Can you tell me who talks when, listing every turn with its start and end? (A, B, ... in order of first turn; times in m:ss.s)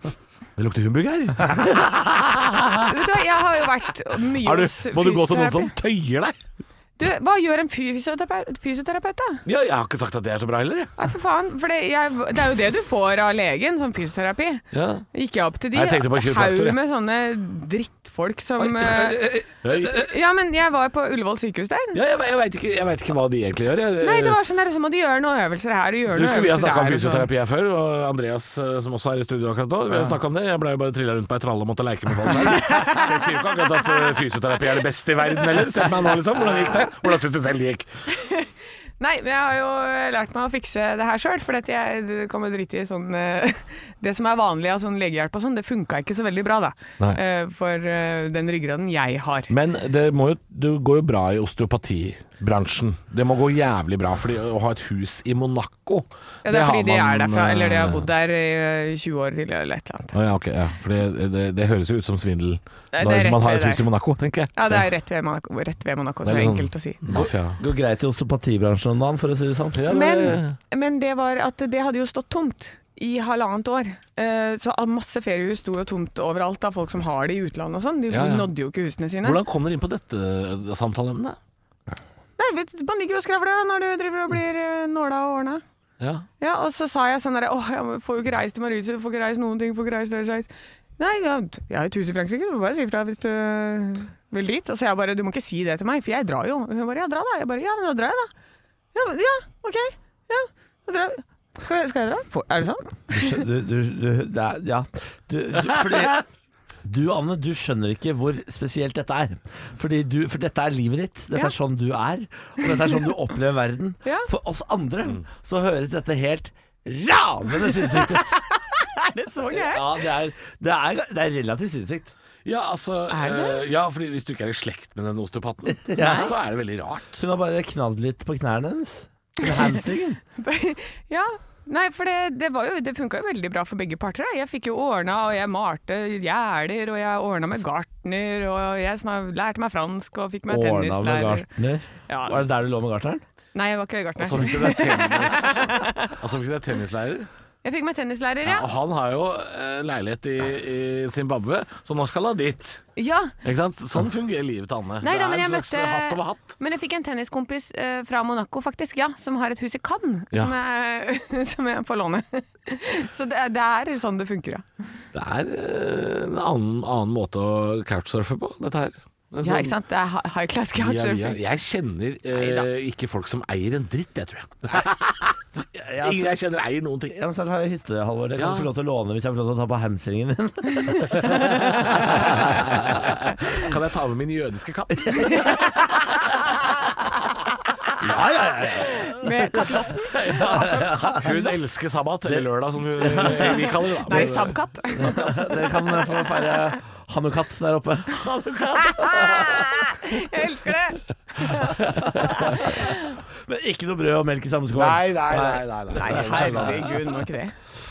0:00.6-0:02.9 A
0:02.9-0:05.7 B
0:04.3-0:06.4 A
0:07.0-0:09.4 B
0:09.5-0:11.0 A
0:11.0-0:19.4 B
0:14.7-0:15.1 A
0:15.7-0:16.8 A
0:18.6-0:20.0 C
0:19.6-0:20.0 A
0:19.9-0:22.0 B
0:21.9-0:24.4 A
0:24.0-0:27.3 B
0:26.1-0:37.9 A
0:32.3-0:33.9 B
0:38.1-0:49.5 B
0:49.5-0:58.1 A
0:56.4-1:00.1 B
1:00.1-1:04.9 A
1:02.9-1:03.8 B
1:04.6-1:07.0 B
1:06.2-1:07.6 A
1:07.1-1:09.8 C
1:09.8-1:10.6 A
1:09.9-1:19.4 B
1:18.1-1:18.5 A
1:19.2-1:21.4 A
1:22.4-1:25.6 B
1:26.0-1:26.3 A
1:26.4-1:30.5 B
1:31.0-1:38.3 B
1:38.9-1:43.4 B
1:43.1-1:46.2 C
1:46.8-1:58.4 C
1:57.7-2:00.0 B
1:59.5-2:02.1 C
2:02.4-2:07.2 A
2:03.1-2:03.6 B
2:05.8-2:06.4 C
2:06.0-2:06.3 B
2:07.2-2:10.2 C
2:10.4-2:21.5 B
2:20.5-2:23.2 C
2:22.1-2:22.4 B
2:23.6-2:26.2 B
2:24.2-2:27.3 A
2:27.6-2:28.7 B
2:28.4-2:32.8 A
2:33.0-2:33.4 B
2:33.4-2:36.6 A
2:35.0-2:44.6 B
2:45.1-2:49.7 A
2:49.4-2:51.4 B
2:50.8-2:55.4 A
2:52.3-2:52.7 B
2:55.8-2:56.4 C
2:56.0-2:57.2 A
2:57.1-3:03.1 C
2:58.4-2:58.7 A
3:00.7-3:02.3 B
3:01.8-3:05.9 A
3:03.4-3:03.7 B
3:05.0-3:05.4 C
3:05.1-3:05.7 B
3:08.0-3:11.4 C
3:08.7-3:11.6 B
3:11.1-3:15.8 A
3:13.0-3:14.4 C
3:14.1-3:15.6 B
3:15.0-3:18.3 C
3:16.4-3:16.7 B
3:18.1-3:20.0 A
3:19.0-3:23.2 B
3:19.0-3:19.5 C
3:21.6-3:22.6 A
3:22.1-3:22.9 C
3:23.4-3:26.9 C
3:24.7-3:27.0 A
3:25.9-3:27.6 B